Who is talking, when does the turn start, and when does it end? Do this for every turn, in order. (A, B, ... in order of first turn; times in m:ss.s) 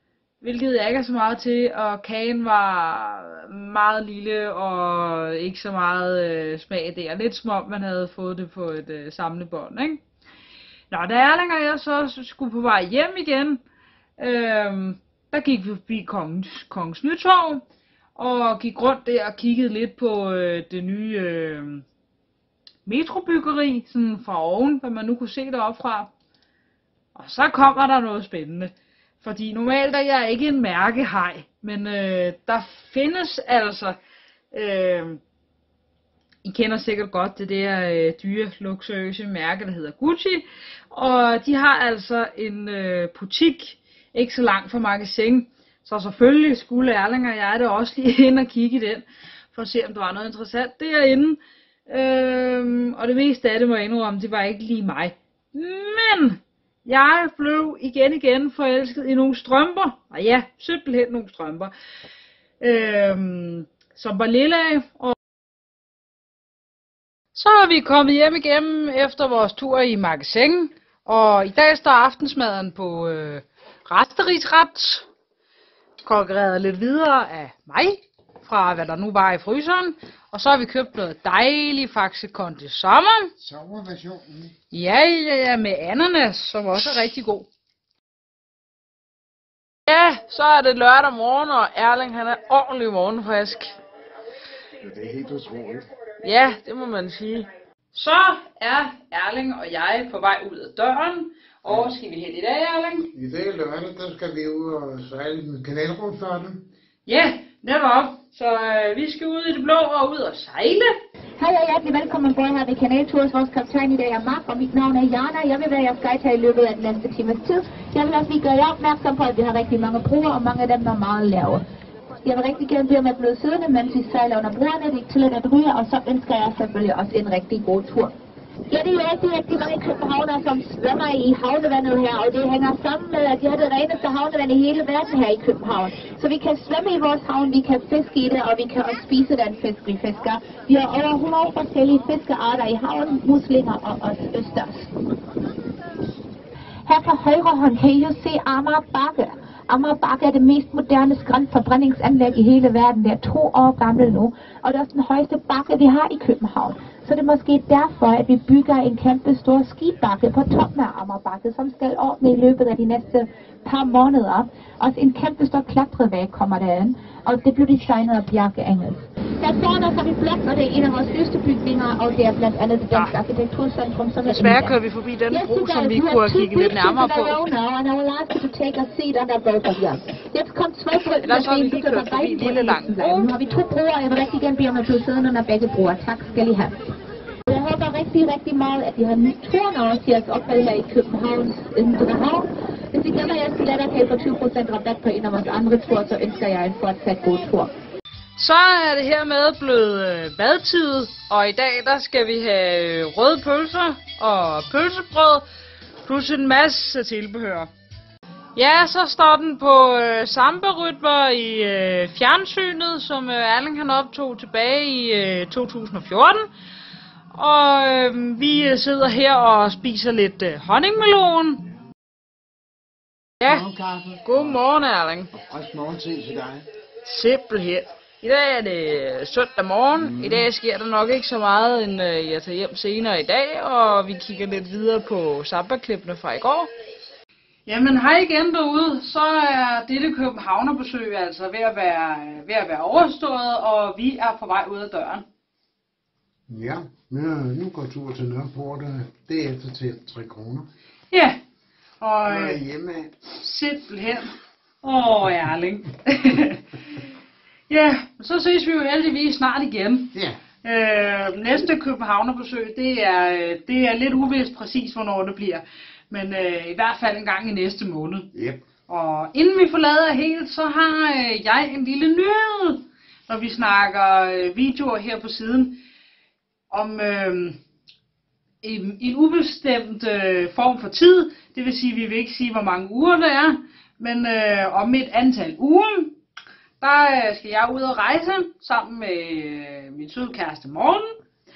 0:00.4-0:10.0 A
0:10.9-0:13.6 A
0:14.2-0:17.6 A
0:18.2-0:21.8 A
0:22.9-0:26.1 A
0:27.2-0:34.0 A
0:34.5-0:35.2 A
0:36.4-1:01.7 A
1:02.6-1:05.2 A
1:07.3-1:15.1 A
1:16.0-1:23.3 A
1:23.4-1:24.5 B
1:24.7-1:27.5 A
1:29.9-1:33.8 A
1:34.8-1:35.8 B
1:36.2-1:43.1 A
1:43.1-1:46.6 B
1:47.1-1:50.9 A
1:51.4-2:01.6 C
2:02.2-2:08.1 C
2:08.7-2:24.9 C
2:26.9-2:54.8 C
2:52.9-2:53.2 A
2:54.2-2:57.4 A
2:55.3-3:06.8 C
3:01.0-3:03.3 A
3:07.5-3:17.7 C
3:18.4-3:25.4 A
3:26.0-3:27.7 A
3:28.6-3:36.5 A
3:37.3-3:41.6 A
3:43.4-3:43.7 A
3:43.4-3:44.6 B
3:44.2-3:45.3 A
3:45.4-3:46.7 B
3:47.0-3:56.7 A
3:50.0-3:50.5 B
3:57.7-4:05.2 A
4:06.5-4:10.7 B
4:11.1-4:11.4 A
4:12.0-4:12.6 A
4:12.3-4:13.2 B
4:13.3-4:17.0 A
4:17.7-4:28.3 A
4:20.1-4:20.4 B
4:28.4-4:28.6 B
4:28.9-4:35.8 A
4:36.7-4:37.6 A
4:38.6-4:46.2 A
4:46.8-4:51.2 A